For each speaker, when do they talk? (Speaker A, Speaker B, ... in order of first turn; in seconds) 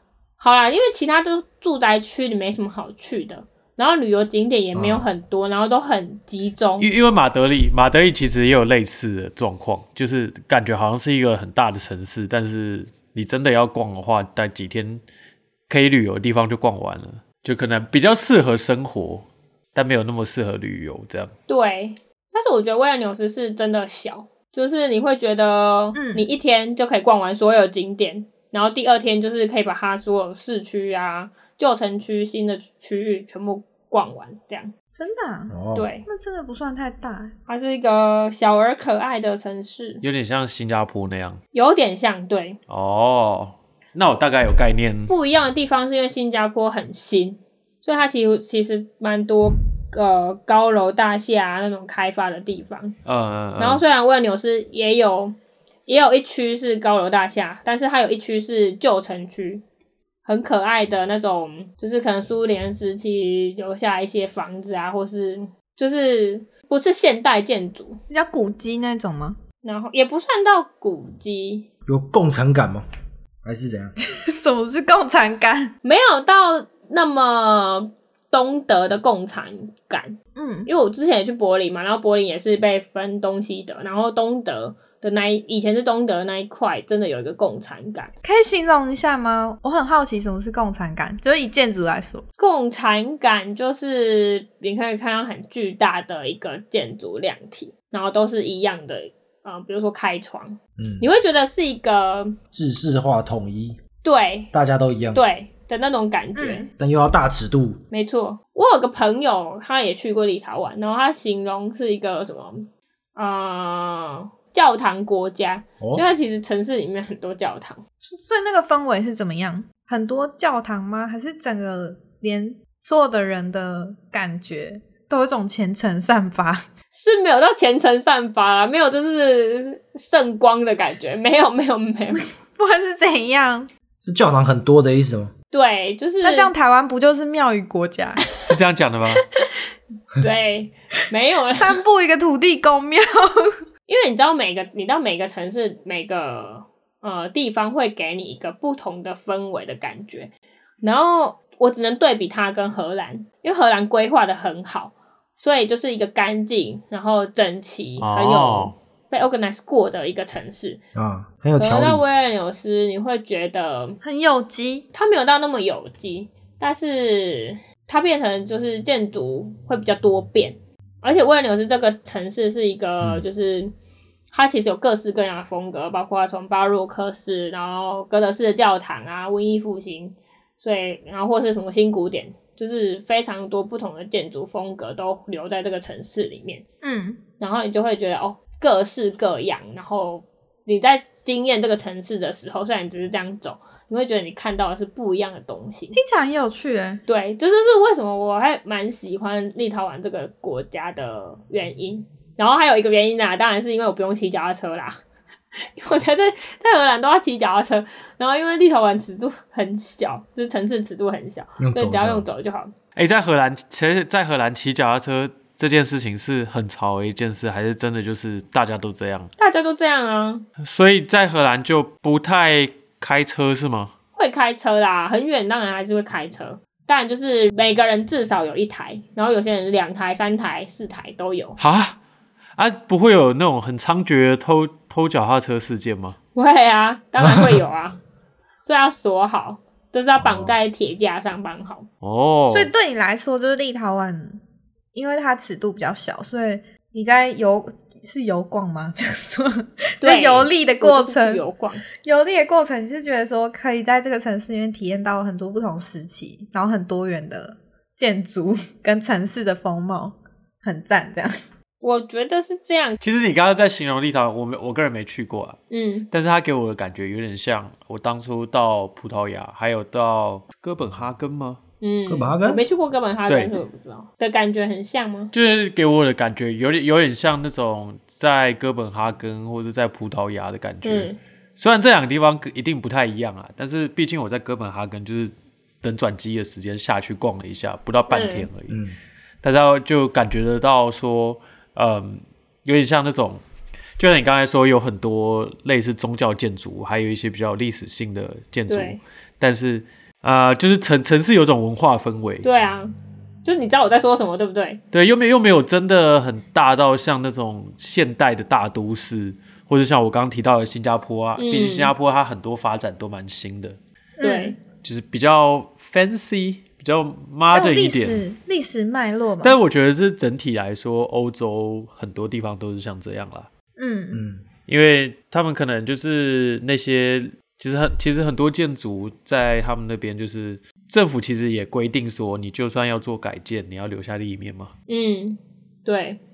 Speaker A: 0.4-6.9, 21.5-34.7, 35.7-36.0, 37.5-40.0, 41.5-42.6, 45.1-53.0, 53.6-55.3, 55.9-59.6, 60.2-68.0, 69.6-71.7, 75.8-88.1, 92.4-102.4, 104.0-104.5, 105.1-106.7, 107.9-117.8, 126.9-132.2, 135.5-136.5, 140.2-141.8, 143.9-150.3, 150.8-160.8, 161.6-164.0, 164.9-173.7, 174.3-186.6, 187.4-195.9, 197.1-205.0, 205.8-212.7, 219.4-220.5, 224.2-231.6, 236.3-238.0, 238.6-241.9, 250.0-251.8, 261.8-263.0, 265.7-266.1, 271.8-275.3, 280.8-281.2, 288.1-288.5, 298.7-299.0, 302.4-304.8, 311.4-311.9, 314.2-314.6, 334.9-336.2
Speaker B: 4.7-5.1, 35.5-35.9, 71.8-72.8, 73.4-74.0, 100.8-101.1, 102.5-103.8, 104.5-105.2, 106.8-107.8, 134.0-135.3, 160.9-162.0, 211.6-212.2, 237.2-237.5, 240.2-240.5, 272.1-272.6, 288.7-288.9, 324.1-324.4
Speaker C: 6.8-15.0, 15.7-21.3, 40.0-41.4, 42.7-45.1, 53.0-53.8, 138.4-139.2, 158.0-158.7, 212.9-219.3, 220.6-223.9, 231.6-232.0, 232.6-236.2, 242.0-242.7, 263.0-271.6, 273.3-273.6, 275.3-288.8, 289.4-293.4, 294.0-302.5, 304.9-313.8, 314.7-318.2, 319.4-323.5, 324.6-334.7
Speaker D: 25.9-26.2, 35.0-35.5, 36.0-37.3, 68.1-69.4, 74.1-75.7, 80.3-80.7, 88.2-92.2, 106.3-106.7, 118.0-126.6, 132.6-133.7, 136.2-138.2, 141.5-143.5, 164.0-164.8, 186.8-187.2, 195.9-197.0, 242.5-244.4, 244.9-251.4, 252.0-261.4, 314.2-314.5, 317.5-319.6, 323.8-324.2